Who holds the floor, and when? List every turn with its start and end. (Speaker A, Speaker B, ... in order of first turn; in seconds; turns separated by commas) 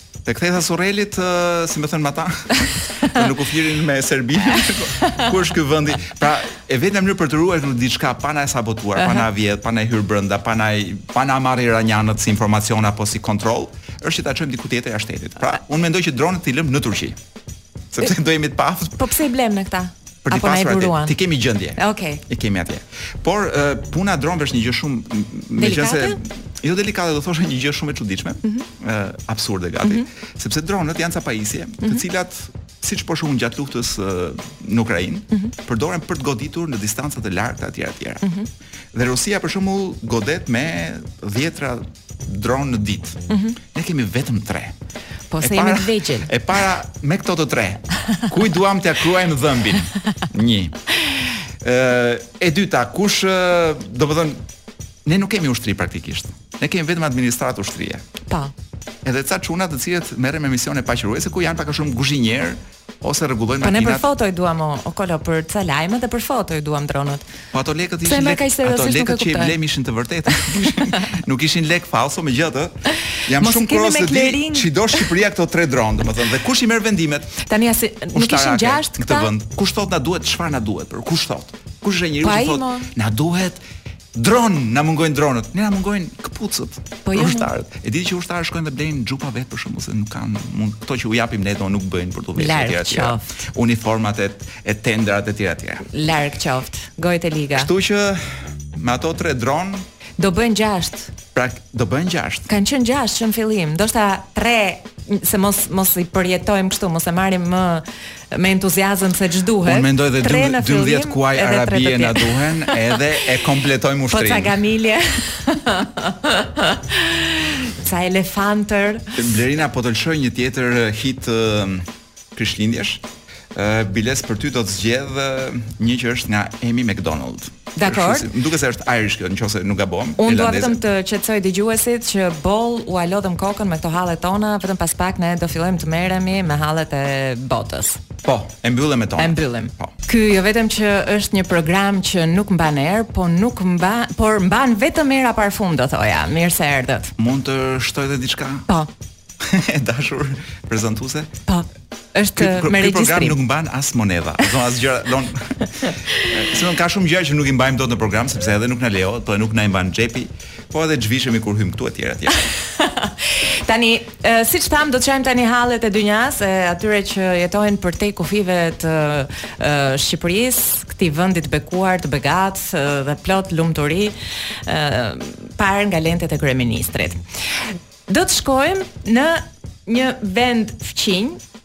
Speaker A: 0.2-17.2, Speaker B: 4.5-5.3, Speaker B: 9.0-9.2, Speaker A: 17.9-19.0, Speaker B: 19.0-21.1, Speaker A: 20.2-38.3, Speaker B: 21.8-22.2, Speaker B: 25.6-26.2, Speaker B: 38.2-38.5, Speaker A: 38.9-44.7, Speaker B: 43.3-43.6, Speaker B: 45.3-46.3, Speaker A: 45.4-50.8, Speaker A: 51.6-54.4, Speaker A: 55.0-58.1, Speaker B: 58.3-58.5, Speaker A: 59.0-64.1, Speaker B: 63.6-67.3, Speaker A: 67.5-77.4, Speaker B: 68.0-69.5, Speaker B: 70.5-71.0, Speaker B: 73.3-75.1, Speaker B: 77.4-79.3, Speaker A: 78.1-83.6, Speaker B: 82.2-82.9, Speaker A: 84.1-95.9, Speaker B: 87.0-87.5, Speaker B: 92.3-93.2, Speaker B: 95.8-97.7, Speaker A: 97.5-98.2, Speaker A: 98.7-99.8, Speaker B: 100.2-101.1, Speaker A: 101.3-102.5, Speaker B: 102.5-113.2, Speaker A: 109.6-114.6, Speaker B: 114.1-119.2, Speaker A: 119.1-123.0, Speaker A: 123.5-130.8, Speaker B: 127.7-128.3, Speaker B: 130.2-138.0, Speaker A: 138.2-139.9, Speaker B: 139.2-147.1, Speaker A: 147.2-148.7, Speaker A: 149.4-151.3, Speaker B: 151.5-153.4, Speaker A: 152.3-162.5, Speaker B: 162.5-177.2, Speaker B: 178.1-181.4